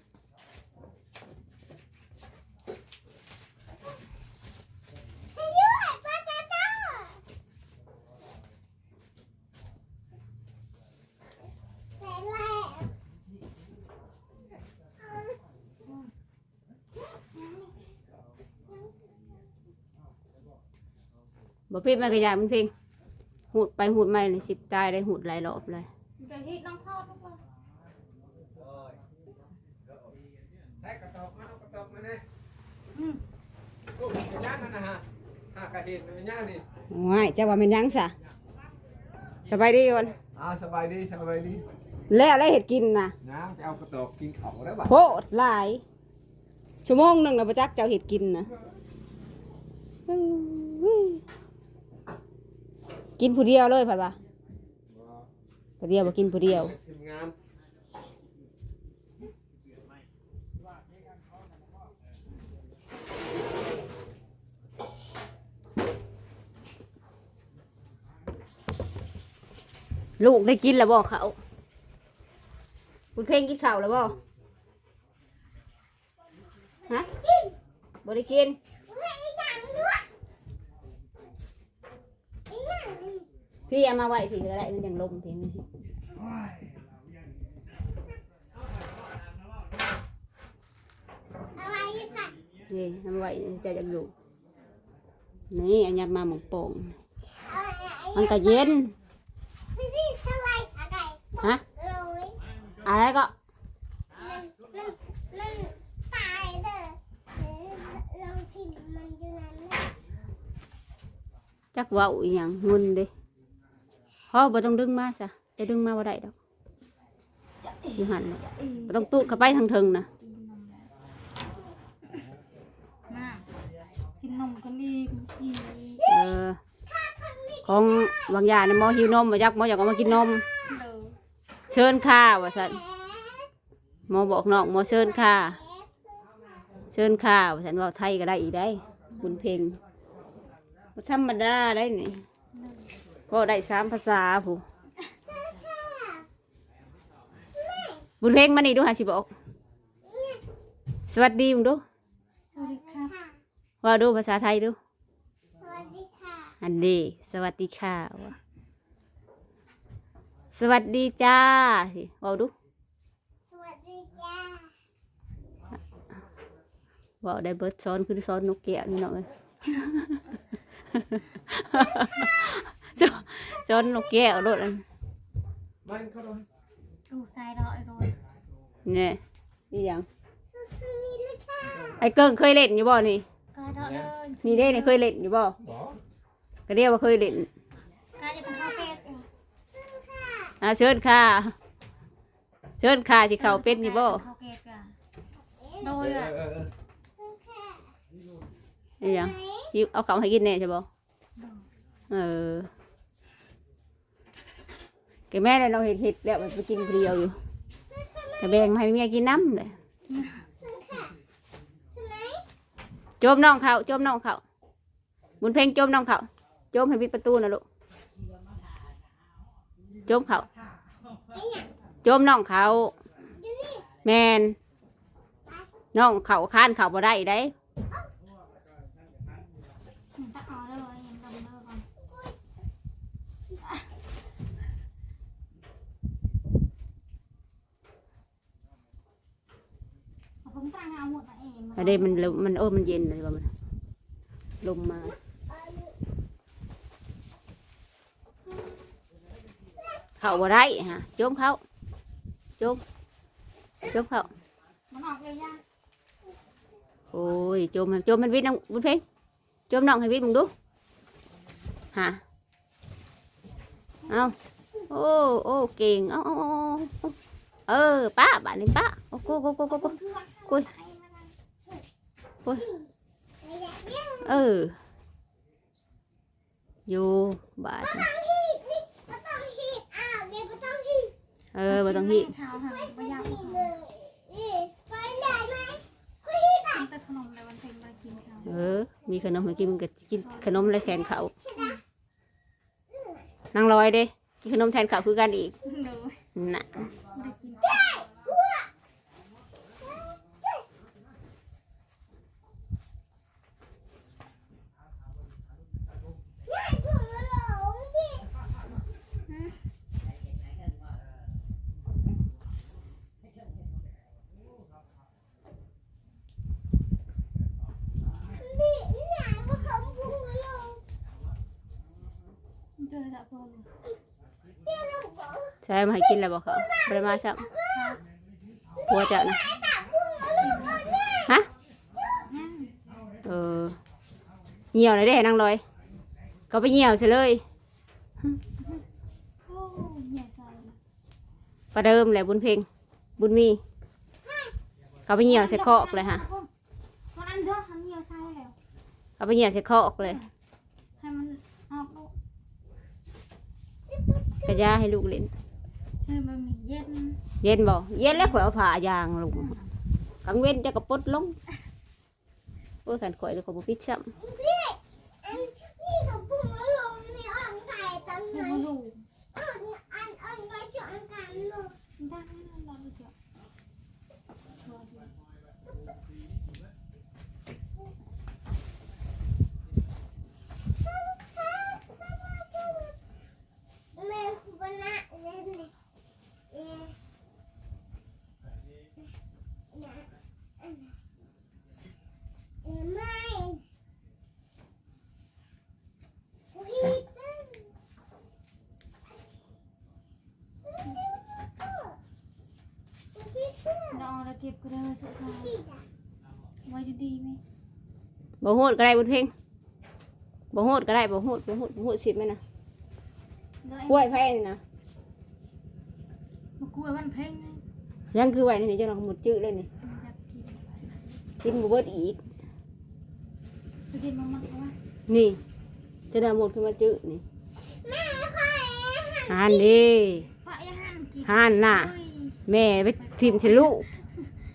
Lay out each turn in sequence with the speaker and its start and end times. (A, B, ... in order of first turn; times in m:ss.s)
0:05.3-0:07.2 A
0:12.0-0:12.9 A
0:17.3-0:17.8 B
0:21.7-0:22.7 C
0:23.5-0:25.9 C
0:26.2-0:27.4 B
0:28.6-0:28.9 D
0:30.8-0:32.2 D
0:32.9-0:33.2 B
0:34.1-0:35.0 D
0:35.5-0:36.6 D
0:36.9-0:38.1 C
0:39.5-0:40.2 C
0:40.4-0:41.7 D
0:42.1-0:43.1 C
0:43.2-0:45.0 D
0:44.8-0:45.8 C
0:46.8-0:48.5 C
0:50.1-0:51.2 C
0:53.2-0:54.2 C
0:55.0-0:55.2 D
0:55.8-0:56.8 C
0:56.5-0:57.3 D
1:10.2-1:11.4 C
1:13.2-1:14.2 C
1:17.0-1:17.6 A
1:18.0-1:18.6 C
1:18.9-1:20.1 A
1:22.5-1:23.3 A
1:23.7-1:25.6 C
1:31.6-1:32.4 A
1:32.7-1:34.1 C
1:35.5-1:37.0 C
1:37.4-1:38.8 A
1:38.1-1:38.9 C
1:39.8-1:42.4 A
1:42.8-1:43.3 C
1:44.2-1:49.9 A
1:51.7-1:53.1 C
1:54.3-1:56.3 C
1:57.6-2:00.9 B
1:58.0-2:00.1 C
2:03.1-2:03.5 B
2:04.2-2:06.1 B
2:06.1-2:06.6 C
2:06.9-2:07.6 A
2:07.6-2:10.5 C
2:10.6-2:11.2 B
2:11.7-2:12.8 C
2:12.9-2:13.4 A
2:14.1-2:15.6 C
2:14.8-2:15.9 A
2:16.9-2:19.8 C
2:19.1-2:19.5 B
2:21.0-2:22.2 C
2:22.5-2:22.9 B
2:23.3-2:24.6 C
2:25.6-2:26.2 A
2:27.6-2:28.0 A
2:28.2-2:29.3 C
2:30.1-2:30.4 A
2:31.1-2:31.8 C
2:32.5-2:33.2 B
2:32.6-2:33.1 A
2:33.8-2:34.8 C
2:35.6-2:36.6 A
2:36.6-2:38.4 C
2:40.5-2:42.5 C
2:43.5-2:44.7 A
2:47.2-2:49.3 C
2:50.9-2:54.8 C
2:55.9-2:56.4 D
2:57.1-2:58.2 B
2:58.9-2:59.2 C
2:59.7-3:00.1 C
3:00.6-3:01.8 A
3:02.0-3:03.2 C
3:03.5-3:05.0 B
3:03.8-3:04.1 D
3:04.4-3:05.6 C
3:05.6-3:06.0 D
3:06.7-3:07.5 C
3:08.2-3:09.3 B
3:09.8-3:10.6 A
3:10.6-3:11.5 C
3:12.8-3:14.2 C
3:13.4-3:14.9 B
3:15.6-3:15.9 A
3:15.8-3:16.4 B
3:16.0-3:16.7 D
3:17.2-3:17.9 A
3:19.0-3:20.9 C
3:19.0-3:19.5 A
3:21.4-3:21.6 B
3:22.1-3:22.7 C
3:25.3-3:27.4 C
3:28.0-3:28.4 A
3:28.4-3:29.7 C
3:30.1-3:30.4 B
3:30.6-3:31.1 A
3:32.0-3:32.4 A
3:33.2-3:34.4 C
3:35.4-3:37.6 C
3:40.1-3:40.5 C
3:41.3-3:41.7 A
3:42.0-3:43.0 C
3:43.4-3:43.9 A
3:44.0-3:44.6 C
3:45.9-3:47.5 C
3:50.2-3:51.9 B
4:00.4-4:02.4 B
4:01.8-4:03.5 C
4:04.6-4:05.2 C
4:05.5-4:05.8 A
4:10.2-4:11.6 C
4:13.9-4:14.3 C
4:14.9-4:15.6 B
4:17.1-4:19.0 C
4:19.7-4:20.5 C
4:21.9-4:22.2 C
4:24.1-4:24.3 B
4:24.1-4:24.4 C
4:24.9-4:27.1 C
4:27.7-4:30.0 C
4:29.6-4:31.3 B
4:33.4-4:34.4 A
4:34.2-4:34.8 C
4:36.9-4:38.1 C
4:38.1-4:41.1 A
4:41.6-4:42.3 C
4:41.7-4:43.8 B
4:43.0-4:46.8 A
4:46.6-4:48.7 B
4:48.4-4:51.3 C
4:50.2-4:51.0 B
4:51.5-4:51.8 B
4:53.5-4:55.5 C
4:55.6-4:56.2 B
4:56.4-4:56.9 C
4:57.0-4:58.0 B
4:58.1-4:58.6 A
5:06.5-5:08.3 A
5:18.3-5:20.8 A
5:22.8-5:23.7 B
5:24.7-5:25.5 A
5:25.6-5:27.5 C
5:27.7-5:28.0 B
5:28.9-5:29.4 C
5:30.2-5:31.0 B
5:32.2-5:32.8 B
5:33.2-5:33.8 C
5:34.7-5:35.6 C
5:36.5-5:37.4 C
5:39.5-5:40.8 B
5:41.7-5:42.7 C
5:43.2-5:43.6 C
5:45.1-5:46.2 C
5:45.2-5:46.5 B
5:47.1-5:48.6 B
5:49.2-5:50.2 C
5:51.0-5:52.1 B
5:53.9-5:54.6 A
5:54.4-5:55.3 C
5:56.0-5:57.2 B
5:57.4-5:59.5 C
5:58.0-5:58.4 B
5:59.3-5:59.7 B
6:00.2-6:01.4 C
6:02.9-6:04.1 C
6:04.2-6:08.7 A
6:08.3-6:09.0 B
6:09.4-6:11.8 A
6:12.0-6:13.1 B
6:14.6-6:15.1 B
6:24.0-6:25.7 A
6:26.5-6:26.9 A
6:32.6-6:33.6 A
6:36.5-6:37.5 A
6:43.2-6:44.0 A
6:43.9-6:45.6 B
6:45.5-6:45.8 A
6:46.6-6:47.4 B
6:48.4-6:49.3 C
6:50.5-6:52.4 C
6:53.6-6:54.2 B
6:53.9-6:54.6 C
6:56.6-6:57.6 B
6:58.1-6:59.7 C
6:59.8-7:00.9 B
7:01.4-7:02.2 C
7:03.9-7:04.8 B
7:05.1-7:05.4 C
7:06.1-7:07.2 C
7:07.8-7:09.7 A
7:09.3-7:10.3 C
7:10.4-7:12.4 B
7:11.2-7:11.9 C
7:12.5-7:13.9 C
7:13.0-7:14.3 B